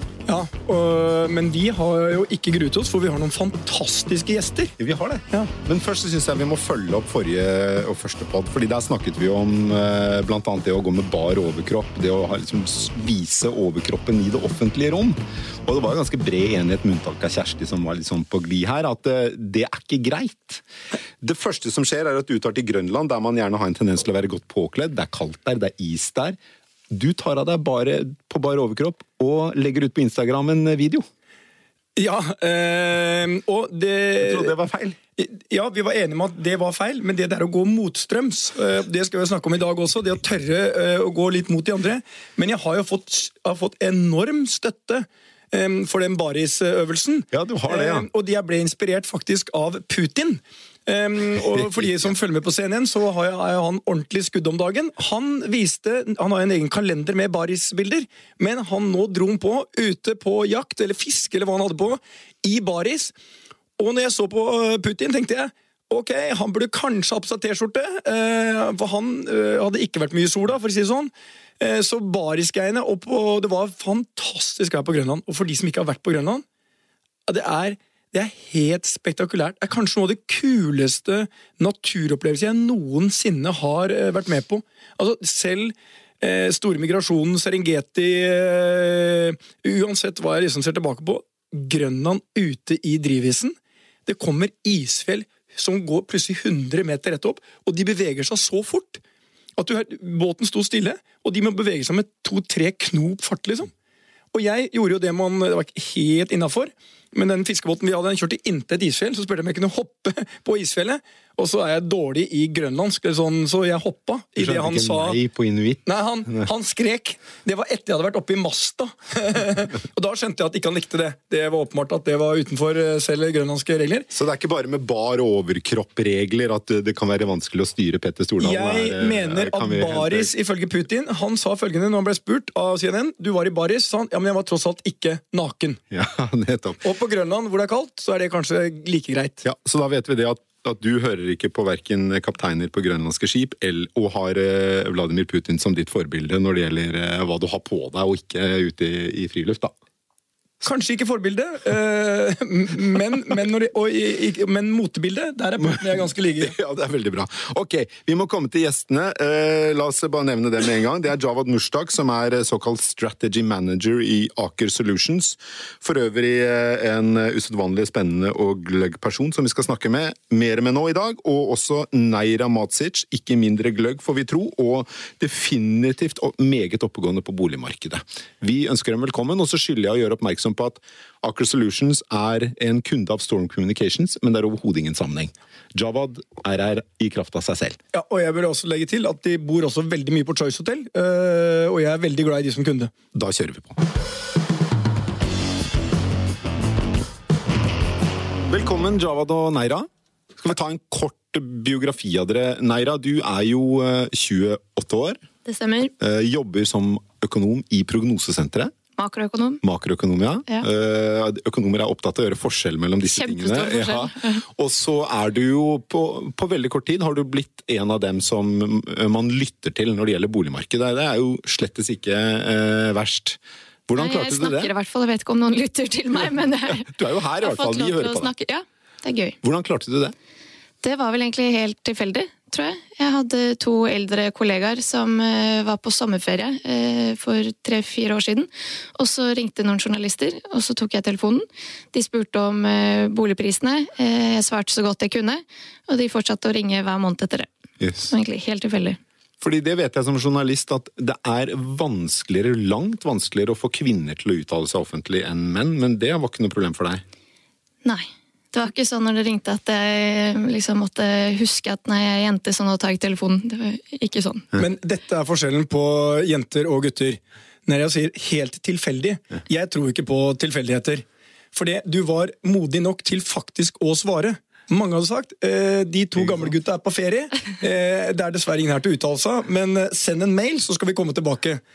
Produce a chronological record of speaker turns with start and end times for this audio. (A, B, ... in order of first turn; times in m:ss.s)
0:00.3-0:04.7 A
0:04.8-0:20.6 B
0:21.2-0:26.4 B
0:26.9-0:31.0 B
0:32.0-0:34.5 A
0:34.2-0:35.0 B
0:35.2-1:03.1 A
0:47.3-0:48.1 B
0:51.4-0:51.9 B
1:03.8-1:16.4 A
1:17.3-1:39.0 A
1:39.6-1:43.7 A
1:44.3-1:55.2 A
1:54.4-1:56.5 B
1:55.8-2:04.1 A
2:04.1-2:10.3 B
2:08.4-2:15.8 A
2:15.9-2:16.8 B
2:16.8-2:19.4 A
2:19.4-2:29.7 B
2:30.6-2:36.5 A
2:36.4-3:07.8 B
3:07.9-3:12.9 A
3:13.1-3:13.8 B
3:18.5-3:19.9 B
3:20.4-3:25.2 B
3:25.4-3:25.9 C
3:26.0-3:28.7 B
3:29.0-3:29.6 C
3:29.6-3:44.7 B
3:33.2-3:34.4 C
3:43.9-3:49.4 C
3:46.7-3:48.3 B
3:49.4-3:50.1 B
3:50.8-4:07.5 C
4:07.8-4:08.1 B
4:08.1-4:09.0 C
4:09.4-4:17.0 B
4:17.8-4:24.5 C
4:24.6-4:41.6 A
4:36.2-4:36.5 B